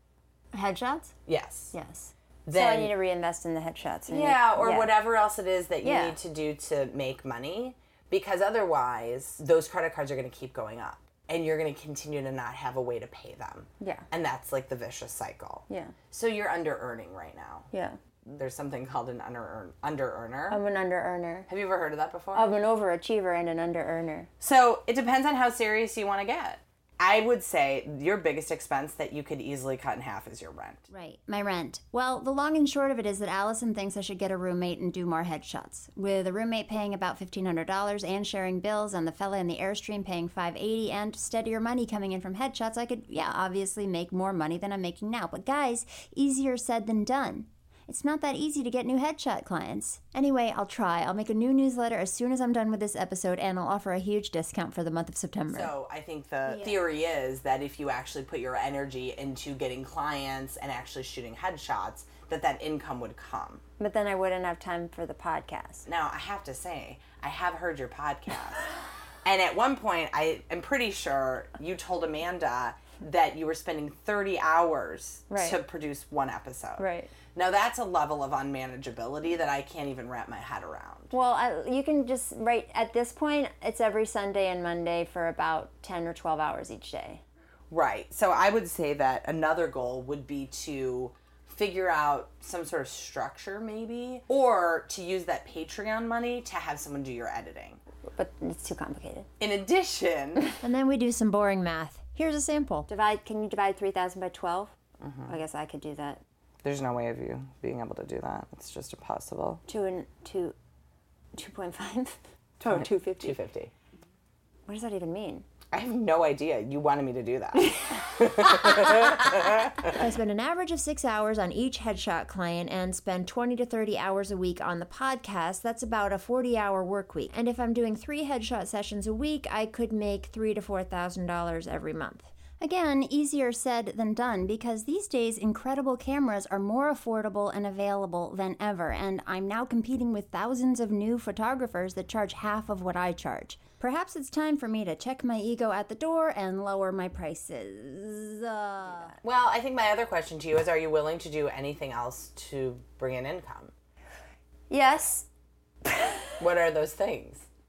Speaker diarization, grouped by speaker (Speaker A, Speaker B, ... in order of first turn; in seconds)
Speaker A: 0.5-1.1, 1.7-4.9, 5.8-6.2, 15.7-16.0, 17.7-18.0, 20.5-21.5, 22.3-24.3, 63.8-65.9, 75.3-75.6, 76.8-77.1, 81.1-87.2, 98.1-99.3, 102.9-104.7, 105.3-106.2, 109.7-110.5, 111.3-113.4, 114.7-115.5, 154.7-155.3, 155.8-156.3
Speaker B: 1.3-1.7, 2.5-3.0, 4.1-17.7, 18.2-20.6, 21.5-22.5, 24.4-30.9, 55.5-63.6, 65.9-68.7, 69.2-81.1, 87.7-97.8, 99.4-100.5, 105.0-105.4, 106.6-109.6, 112.6-113.7, 115.7-120.0, 149.2-153.7, 156.4-157.5
Speaker C: 30.9-55.7, 100.6-102.9, 119.9-149.2